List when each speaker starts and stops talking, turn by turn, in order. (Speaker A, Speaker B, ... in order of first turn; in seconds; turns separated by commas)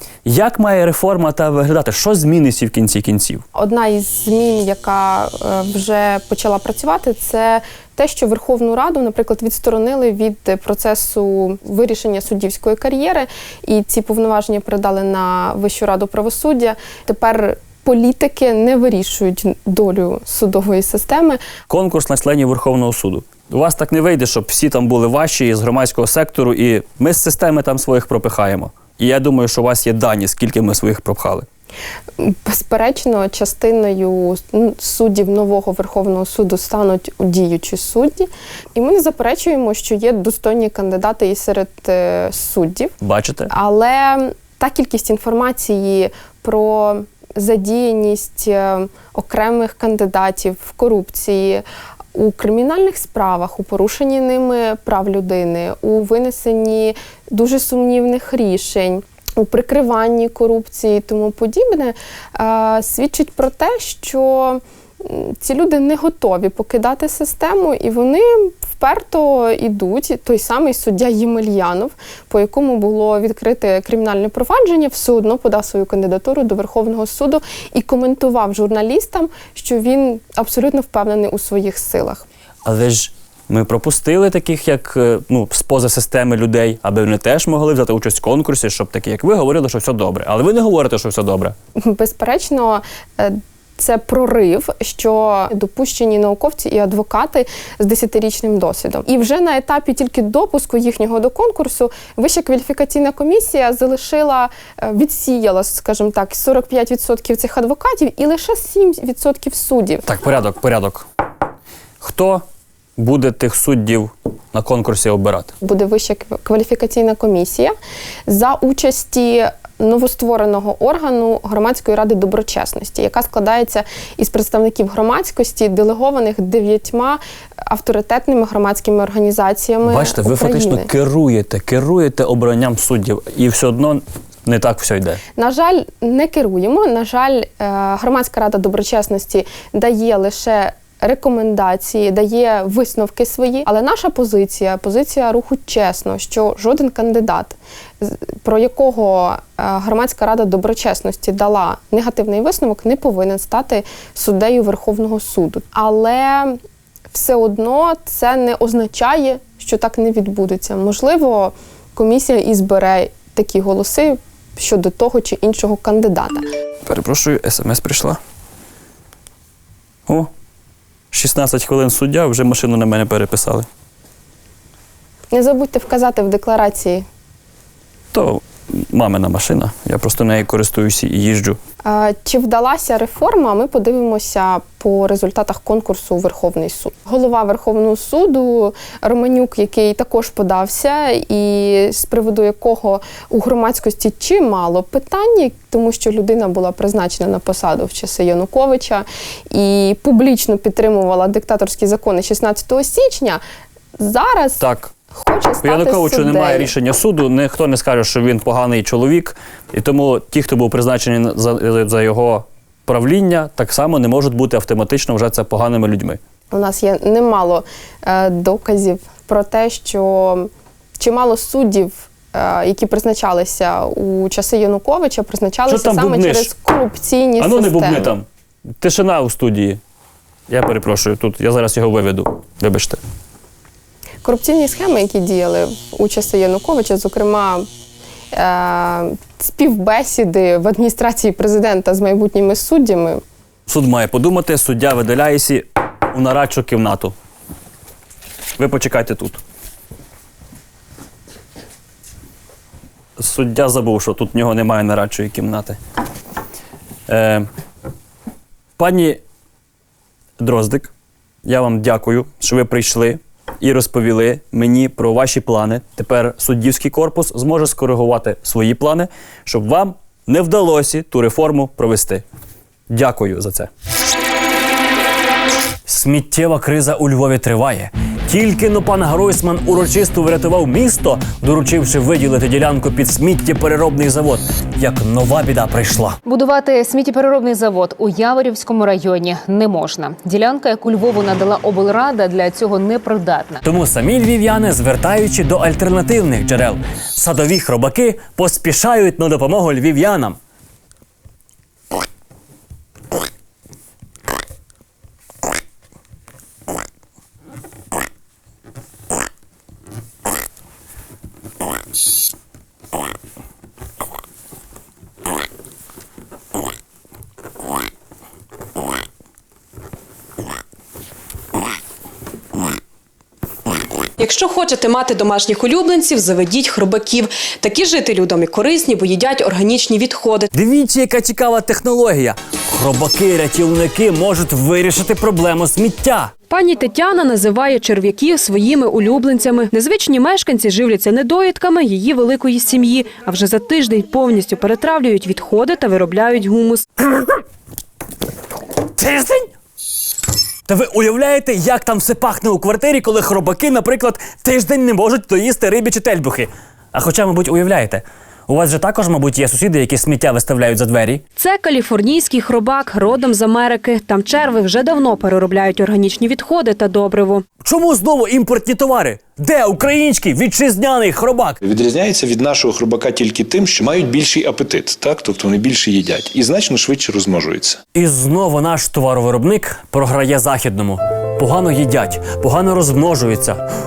Speaker A: 0.2-3.4, Speaker B: 3.6-21.4, Speaker A: 21.7-31.5, Speaker B: 32.2-42.9, Speaker A: 43.0-43.5, Speaker B: 43.5-51.6, Speaker B: 52.1-82.2, Speaker A: 82.7-91.5, Speaker B: 91.8-110.0, Speaker A: 110.0-111.0, Speaker A: 112.0-112.4, Speaker A: 113.0-115.5, Speaker B: 115.6-117.8, Speaker B: 118.3-130.9, Speaker A: 129.8-135.2, Speaker B: 135.4-156.6, Speaker B: 157.1-166.4, Speaker A: 166.9-168.2, Speaker A: 171.1-173.7, Speaker B: 175.3-177.1, Speaker A: 178.1-181.6, Speaker B: 181.8-203.4, Speaker B: 204.0-206.7, Speaker A: 204.6-204.9, Speaker A: 205.6-216.2, Speaker B: 216.5-228.2, Speaker A: 225.7-226.5, Speaker A: 227.4-228.3, Speaker A: 228.8-229.8, Speaker A: 230.5-233.0, Speaker B: 234.2-237.7, Speaker B: 238.3-243.2, Speaker A: 243.7-247.1, Speaker A: 248.6-249.4, Speaker A: 253.2-255.8, Speaker A: 257.1-257.5, Speaker A: 258.8-259.2, Speaker A: 260.4-260.9, Speaker A: 261.4-272.2, Speaker A: 272.9-273.7, Speaker C: 275.9-286.2, Speaker D: 286.3-293.6, Speaker C: 293.6-300.4, Speaker E: 324.2-330.5, Speaker C: 330.5-336.3, Speaker E: 336.5-346.8, Speaker C: 349.0-349.5, Speaker C: 350.7-361.2, Speaker E: 361.4-367.4, Speaker C: 367.6-371.6, Speaker F: 371.6-377.8, Speaker C: 377.9-383.6